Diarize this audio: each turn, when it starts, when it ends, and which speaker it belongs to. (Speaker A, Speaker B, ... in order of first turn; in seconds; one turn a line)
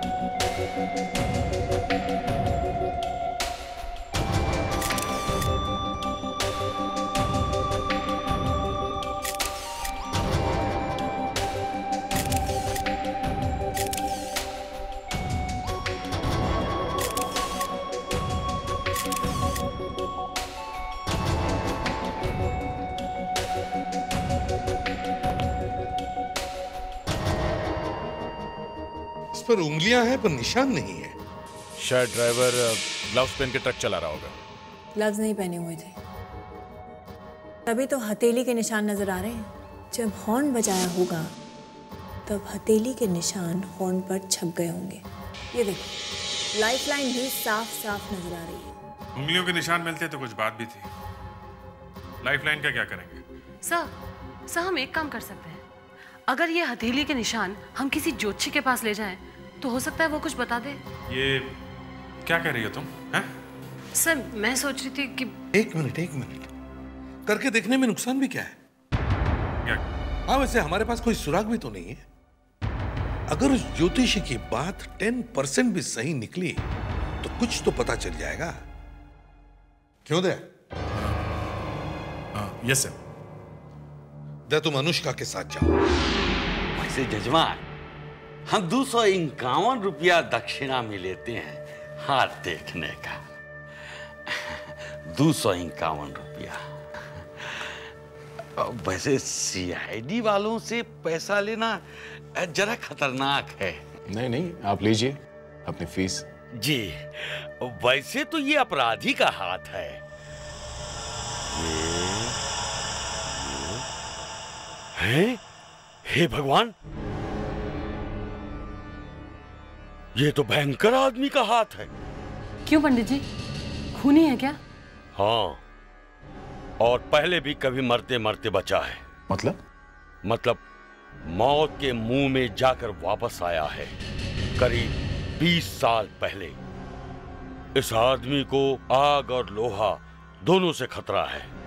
Speaker A: 29.3-31.1
Speaker B: 31.8-34.3
Speaker C: 35.0-36.0
Speaker C: 37.7-41.3
Speaker C: 42.3-45.9
Speaker C: 46.5-48.7
Speaker D: 49.2-50.9
Speaker D: 52.2-53.2
Speaker E: 53.6-53.9
Speaker E: 54.5-55.6
Speaker E: 56.3-60.8
Speaker D: 61.1-61.5
Speaker D: 62.2-63.3
Speaker E: 64.0-65.4
Speaker A: 65.5-66.5
Speaker A: 67.3-68.5
Speaker A: 70.3-72.0
Speaker A: 73.3-76.6
Speaker A: 77.2-78.5
Speaker A: 80.1-80.4
Speaker B: 82.3-83.0
Speaker A: 84.5-85.7
Speaker F: 86.8-87.6
Speaker F: 88.5-93.2
Speaker F: 94.3-96.6
Speaker F: 97.2-97.8
Speaker F: 98.6-103.8
Speaker B: 104.1-105.2
Speaker B: 105.7-106.2
Speaker F: 106.6-110.0
Speaker F: 111.5-112.4
Speaker F: 113.4-113.8
Speaker F: 115.0-115.4
Speaker F: 116.0-116.7
Speaker F: 120.2-121.9
Speaker E: 122.7-123.2
Speaker E: 123.9-124.6
Speaker F: 125.2-125.6
Speaker F: 126.8-129.0
Speaker F: 130.2-130.6
Speaker F: 131.2-133.9
Speaker F: 134.6-136.6
Speaker F: 137.8-141.5